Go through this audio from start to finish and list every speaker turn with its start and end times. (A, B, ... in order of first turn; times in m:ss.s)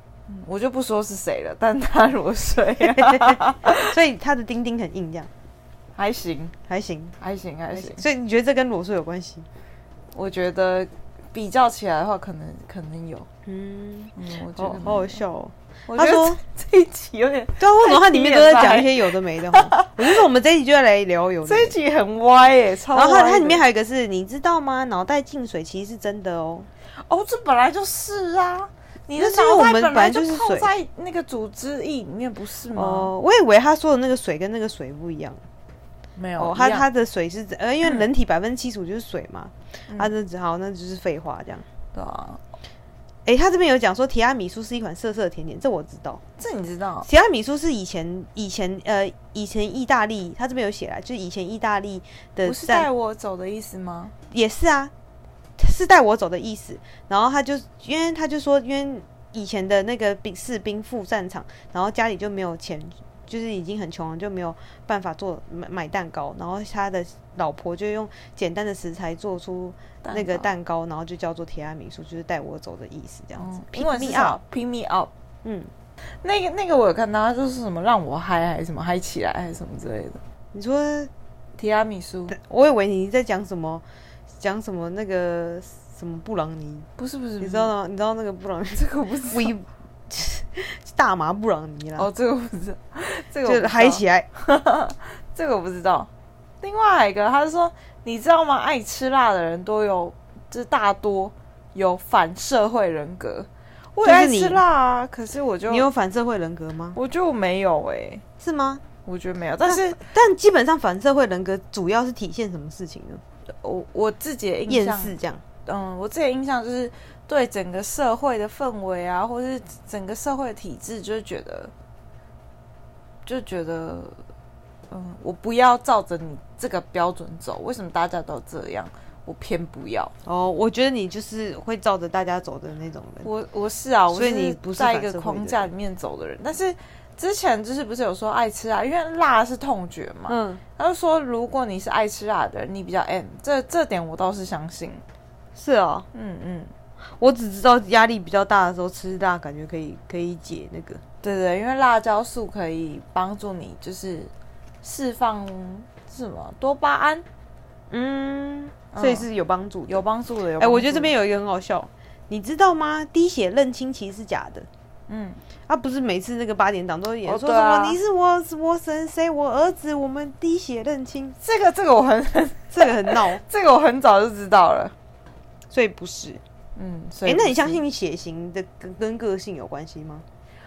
0:00.3-0:03.9 A
0:02.8-0:05.3 B
0:06.0-0:06.5 A
0:06.7-0:07.2 B
0:07.2-0:08.0 A
0:07.7-0:09.5 B
0:10.1-0:13.3 A
0:13.4-0:16.4 B
0:14.2-0:15.2 A
0:15.9-0:20.0 A
0:17.6-0:21.7 B
0:21.4-0:23.6 A
0:22.9-0:26.7 B
0:26.9-0:33.1 A
0:29.1-0:30.7 B
0:32.7-0:35.4 B
0:36.2-0:36.9 A
0:36.4-0:41.6 B
0:41.9-0:42.4 A
0:43.2-0:46.2 B
0:46.4-0:47.1 A
0:47.0-0:52.9 B
0:52.4-0:54.1 A
0:54.3-0:54.9 B
0:55.6-1:14.4 B
1:10.0-1:10.5 A
1:13.4-1:15.1 A
1:15.4-1:15.7 B
1:16.0-1:20.2 A
1:20.5-1:21.1 B
1:21.6-1:22.3 A
1:22.3-1:23.8 B
1:24.4-1:26.9 B
1:27.0-1:27.7 A
1:27.4-1:32.1 B
1:28.7-1:29.5 A
1:32.0-1:36.1 A
1:33.4-1:34.3 B
1:36.6-1:45.9 A
1:44.0-1:44.6 B
1:45.7-1:47.0 B
1:46.9-1:48.2 A
1:48.4-1:48.8 B
1:49.0-1:50.0 A
1:49.6-1:53.2 B
1:53.5-2:01.7 A
1:54.7-1:55.4 B
2:03.2-2:04.2 A
2:04.9-2:10.1 A
2:10.2-2:13.3 B
2:13.2-2:25.0 A
2:14.1-2:15.7 B
2:20.3-2:20.6 B
2:25.5-2:26.1 B
2:26.1-2:26.7 A
2:27.1-2:31.0 B
2:31.2-2:34.3 A
2:34.8-2:37.2 A
2:37.9-2:40.0 B
2:38.9-2:39.2 A
2:39.9-2:41.1 A
2:40.6-2:44.7 B
2:45.1-2:45.4 A
2:45.7-2:51.4 B
2:47.2-2:48.0 A
2:51.4-2:54.9 A
2:52.7-2:53.4 B
2:55.7-2:56.4 B
2:56.8-2:57.8 A
2:57.2-3:00.2 B